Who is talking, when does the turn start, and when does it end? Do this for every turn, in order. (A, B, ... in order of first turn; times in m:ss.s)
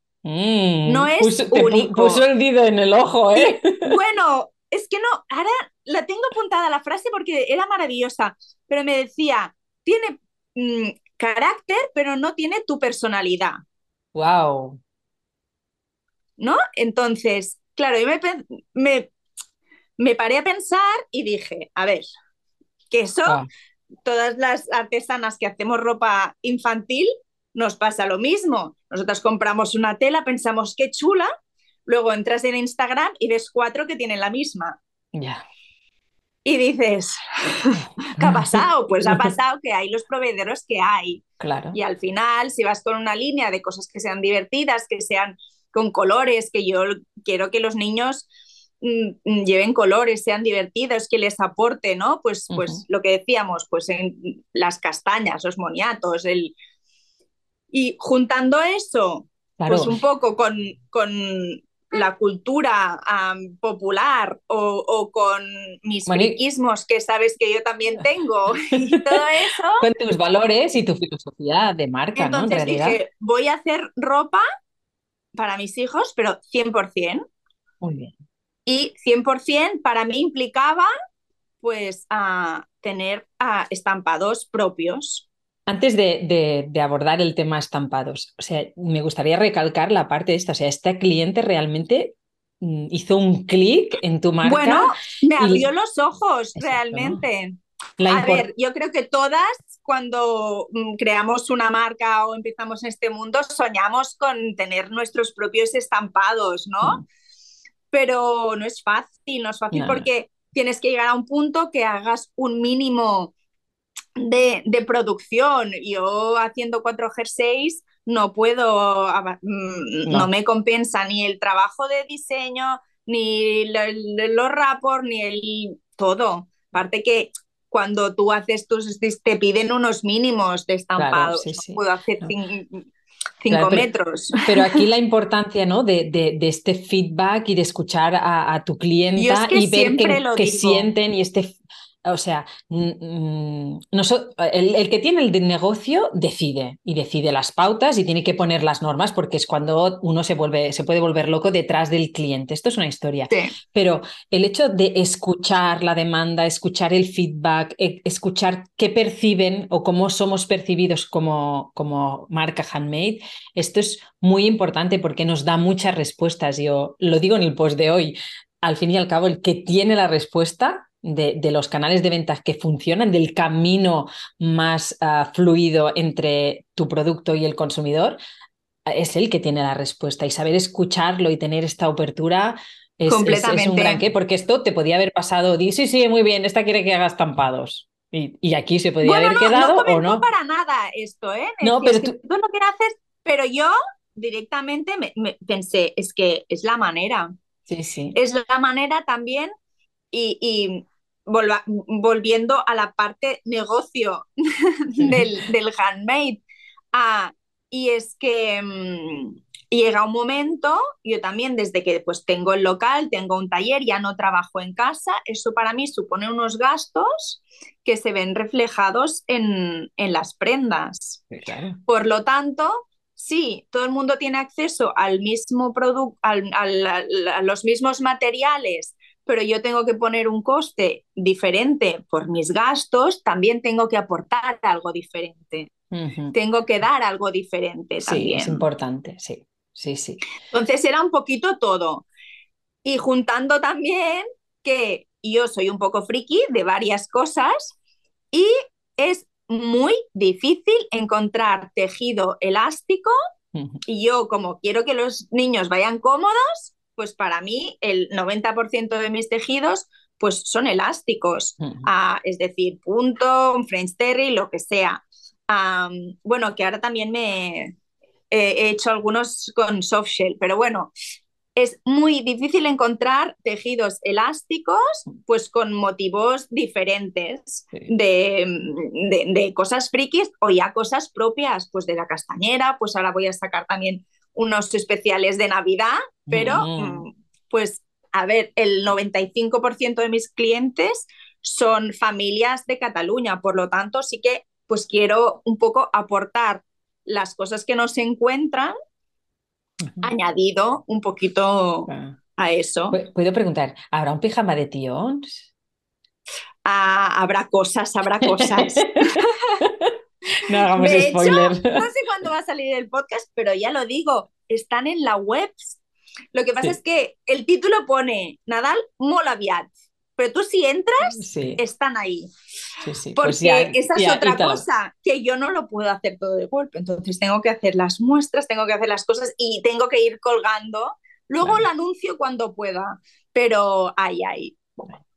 0:00.2-0:03.9 A
0:00.9-0:02.2 B
0:03.4-0:13.6 B
0:14.2-0:14.8 A
0:16.4-0:19.1 B
0:20.0-0:22.1 B
0:22.9-0:23.4 B
0:24.0-0:31.3 B
0:31.9-0:34.8 B
0:35.1-0:35.4 A
0:36.5-0:48.3 B
0:37.8-0:39.1 A
0:41.4-0:41.8 A
0:48.8-0:56.6 B
0:52.5-0:52.8 A
0:57.7-1:09.9 B
0:59.6-1:00.0 A
1:06.1-1:06.4 A
1:08.7-1:09.2 A
1:09.8-1:13.0 A
1:12.2-1:14.4 B
1:15.4-1:17.2 B
1:17.8-1:18.1 A
1:18.6-1:20.9 B
1:21.6-1:25.3 B
1:25.7-1:35.6 A
1:34.4-1:47.0 B
1:36.6-1:37.2 A
1:38.0-1:38.5 A
1:47.9-1:53.3 B
1:49.7-1:50.1 A
1:54.2-2:12.9 B
2:11.0-2:12.3 A
2:13.4-2:14.8 B
2:13.5-2:13.9 A
2:14.4-2:58.2 A
2:19.2-2:20.9 B
2:58.9-3:10.2 A
3:03.1-3:04.0 B
3:09.0-3:17.3 B
3:11.6-3:12.2 A
3:17.7-3:18.2 A
3:18.1-3:19.5 B
3:20.1-3:26.4 B
3:25.0-3:25.3 A
3:26.9-3:41.2 B
3:41.3-3:41.8 A
3:41.9-3:55.7 B
3:55.9-3:56.4 A
3:56.3-3:58.6 B
3:58.0-4:00.2 A
4:00.5-4:02.1 B
4:02.8-4:07.8 B
4:08.3-4:13.1 B
4:13.6-4:13.8 A
4:13.9-4:27.8 B
4:28.3-4:30.9 B
4:31.6-4:58.7 B
4:46.3-4:47.0 A
5:00.0-5:03.0 B
5:01.9-5:02.1 A
5:02.9-5:05.5 A
5:06.6-5:09.6 B
5:08.2-5:11.9 A
5:10.7-5:15.8 B
5:16.3-5:22.3 B
5:21.0-5:21.6 A
5:22.8-5:24.6 A
5:23.2-5:34.9 B